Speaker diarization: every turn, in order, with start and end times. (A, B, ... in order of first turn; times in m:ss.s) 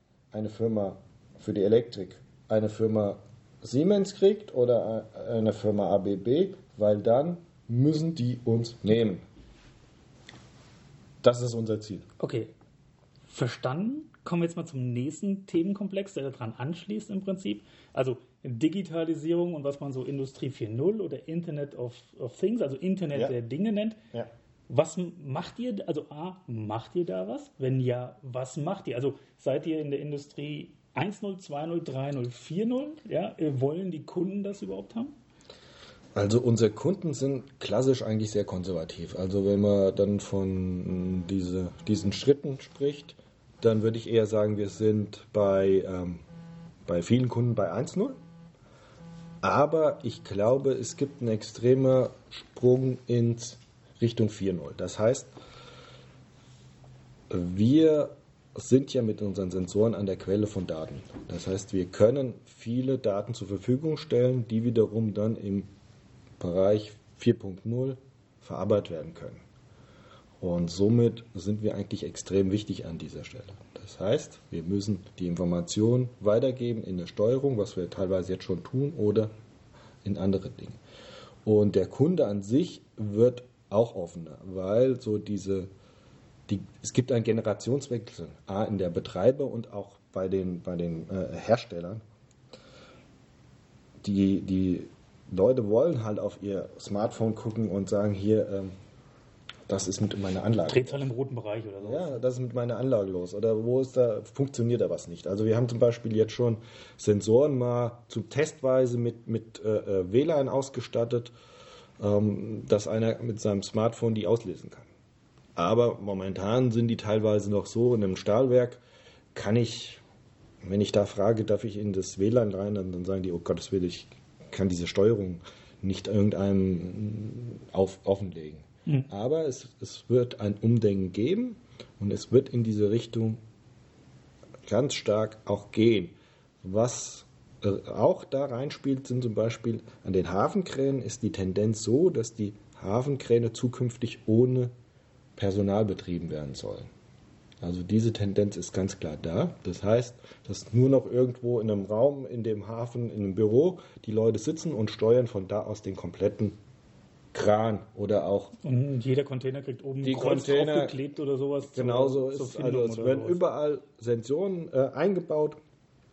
0:00.3-0:09.2 A
0:11.2-0:12.1 A
0:12.2-0:12.5 B
0:13.3-0:24.0 B
0:24.7-0:35.1 B
0:36.2-0:46.2 A
0:46.9-0:48.2 A
0:49.4-0:55.3 A
0:57.3-1:05.7 A
1:06.4-1:09.4 A
1:10.4-1:19.3 A
1:20.0-1:20.8 A
1:21.4-1:25.7 A
1:26.5-1:32.0 A
1:34.0-1:38.7 A
1:39.7-1:41.1 A
1:40.7-1:42.2 B
1:41.8-1:51.3 A
1:52.0-1:54.9 A
1:55.6-1:58.8 A
1:59.3-2:00.0 A
2:00.6-2:13.4 A
2:14.7-2:24.7 A
2:25.4-2:26.9 A
2:27.6-2:36.6 A
2:37.3-2:38.5 A
2:38.6-2:43.4 B
2:40.0-2:41.0 A
2:41.7-2:45.6 A